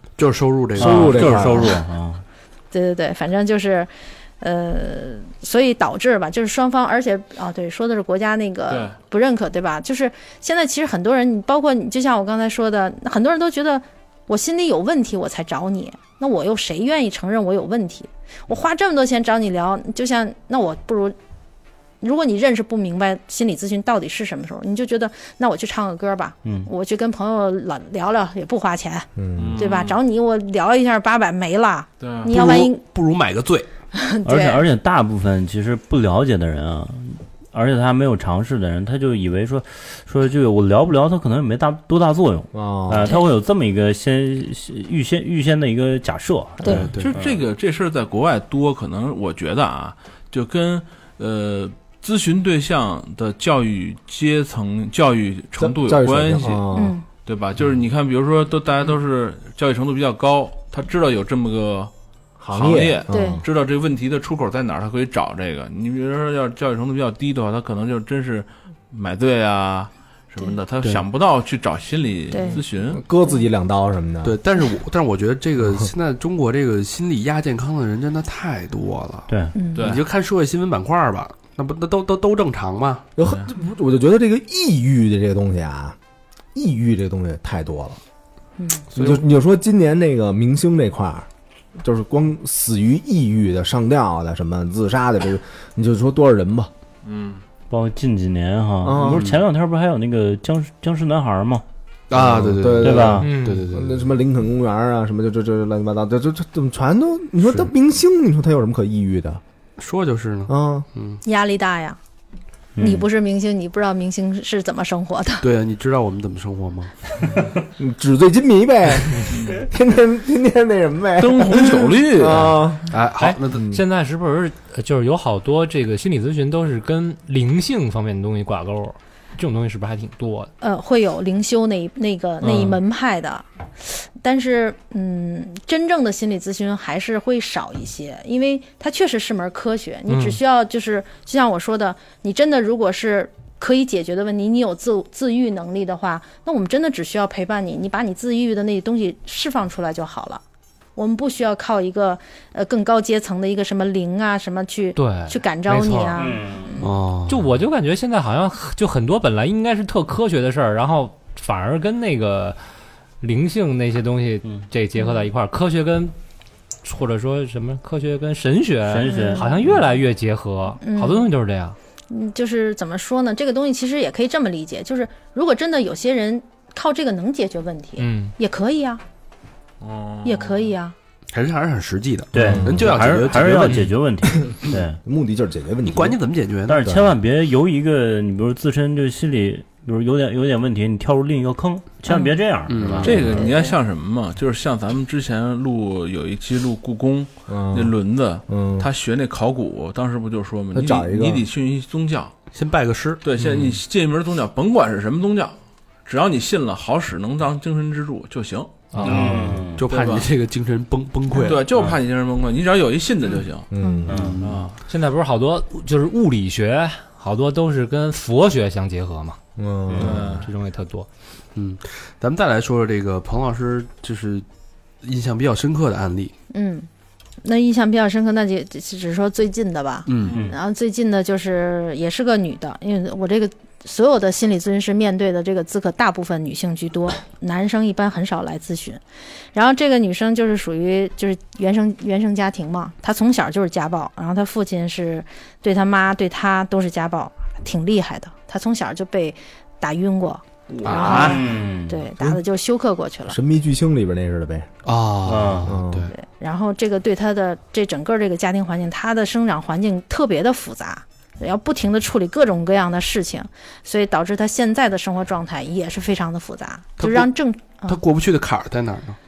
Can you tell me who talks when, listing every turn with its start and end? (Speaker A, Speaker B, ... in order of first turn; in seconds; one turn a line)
Speaker A: 0.2-1.5
Speaker B: 0.8-1.8
Speaker C: 0.8-2.2
Speaker D: 2.7-21.1
Speaker E: 8.7-9.0
Speaker D: 22.0-32.8
Speaker B: 29.2-29.7
Speaker E: 29.4-30.0
Speaker E: 32.0-32.3
Speaker A: 32.3-33.7
Speaker D: 33.9-34.6
Speaker C: 34.2-47.4
Speaker B: 42.5-43.1
Speaker A: 46.6-47.2
Speaker E: 47.0-56.7
Speaker B: 55.6-57.0
Speaker D: 56.7-57.0
Speaker E: 57.2-61.9
Speaker B: 62.4-63.5
Speaker E: 62.5-73.0
Speaker D: 63.1-63.4
Speaker D: 72.3-72.6
Speaker B: 72.6-74.3
Speaker A: 74.2-83.1
Speaker B: 75.6-75.9
Speaker C: 79.3-79.5
Speaker D: 79.5-79.9
Speaker E: 79.8-80.0
Speaker B: 83.2-86.0
Speaker E: 83.2-83.5
Speaker B: 86.5-88.0
Speaker D: 88.6-88.8
Speaker A: 88.9-89.2
Speaker B: 88.9-96.7
Speaker E: 97.0-97.4
Speaker C: 97.7-101.6
Speaker B: 98.8-99.3
Speaker A: 99.0-99.4
Speaker A: 102.1-104.1
Speaker B: 102.1-109.4
Speaker C: 102.8-103.3
Speaker F: 103.2-103.7
Speaker A: 109.8-111.2
Speaker B: 110.5-110.9
Speaker D: 111.2-112.0
Speaker C: 112.8-113.0
Speaker D: 112.8-115.4
Speaker A: 115.4-117.0
Speaker B: 117.8-122.9
Speaker E: 119.3-119.6
Speaker E: 121.2-122.7
Speaker A: 122.9-123.7
Speaker F: 123.2-130.5
Speaker B: 123.5-123.8
Speaker D: 130.6-150.4
Speaker F: 132.4-132.8
Speaker F: 140.1-140.4
Speaker D: 151.0-156.9
Speaker F: 155.0-156.2
Speaker C: 156.2-156.8
Speaker A: 156.8-157.5
Speaker F: 157.3-162.6
Speaker F: 163.2-166.1
Speaker D: 165.0-165.2
Speaker F: 166.8-171.8
Speaker C: 168.9-170.0
Speaker D: 169.1-169.5
Speaker D: 170.8-171.3
Speaker D: 172.1-179.0
Speaker F: 178.0-178.3
Speaker E: 179.8-180.7
Speaker D: 180.2-180.9
Speaker A: 181.3-183.9
Speaker C: 182.3-185.0
Speaker B: 182.4-183.2
Speaker B: 185.0-186.2
Speaker A: 185.8-186.9
Speaker C: 186.7-193.2
Speaker B: 186.8-187.1
Speaker D: 192.1-192.3
Speaker A: 192.7-193.4
Speaker B: 192.8-193.1
Speaker E: 193.0-202.3
Speaker D: 193.3-193.7
Speaker B: 197.5-197.9
Speaker B: 198.5-198.9
Speaker B: 200.7-201.4
Speaker A: 202.5-203.2
Speaker E: 203.2-209.1
Speaker F: 208.9-209.6
Speaker C: 209.0-209.8
Speaker B: 209.1-209.4
Speaker A: 209.8-211.7
Speaker E: 209.9-210.3
Speaker D: 211.3-211.6
Speaker E: 211.4-213.7
Speaker B: 213.7-214.4
Speaker D: 213.8-214.1
Speaker A: 214.1-214.7
Speaker C: 214.1-214.4
Speaker E: 214.4-214.8
Speaker F: 214.9-219.4
Speaker B: 219.6-220.5
Speaker C: 219.9-220.2
Speaker E: 220.0-220.5
Speaker F: 220.4-221.1
Speaker A: 221.6-224.5
Speaker A: 225.0-226.3
Speaker D: 226.5-226.9
Speaker D: 227.4-239.0
Speaker A: 230.1-230.4
Speaker E: 230.2-230.5
Speaker C: 230.2-230.6
Speaker D: 239.5-253.4
Speaker A: 250.8-251.4
Speaker C: 250.8-252.0
Speaker B: 253.3-254.7
Speaker A: 254.8-256.1
Speaker C: 255.2-255.8
Speaker B: 255.7-256.1
Speaker D: 256.1-268.0
Speaker A: 267.0-267.3
Speaker A: 267.9-269.2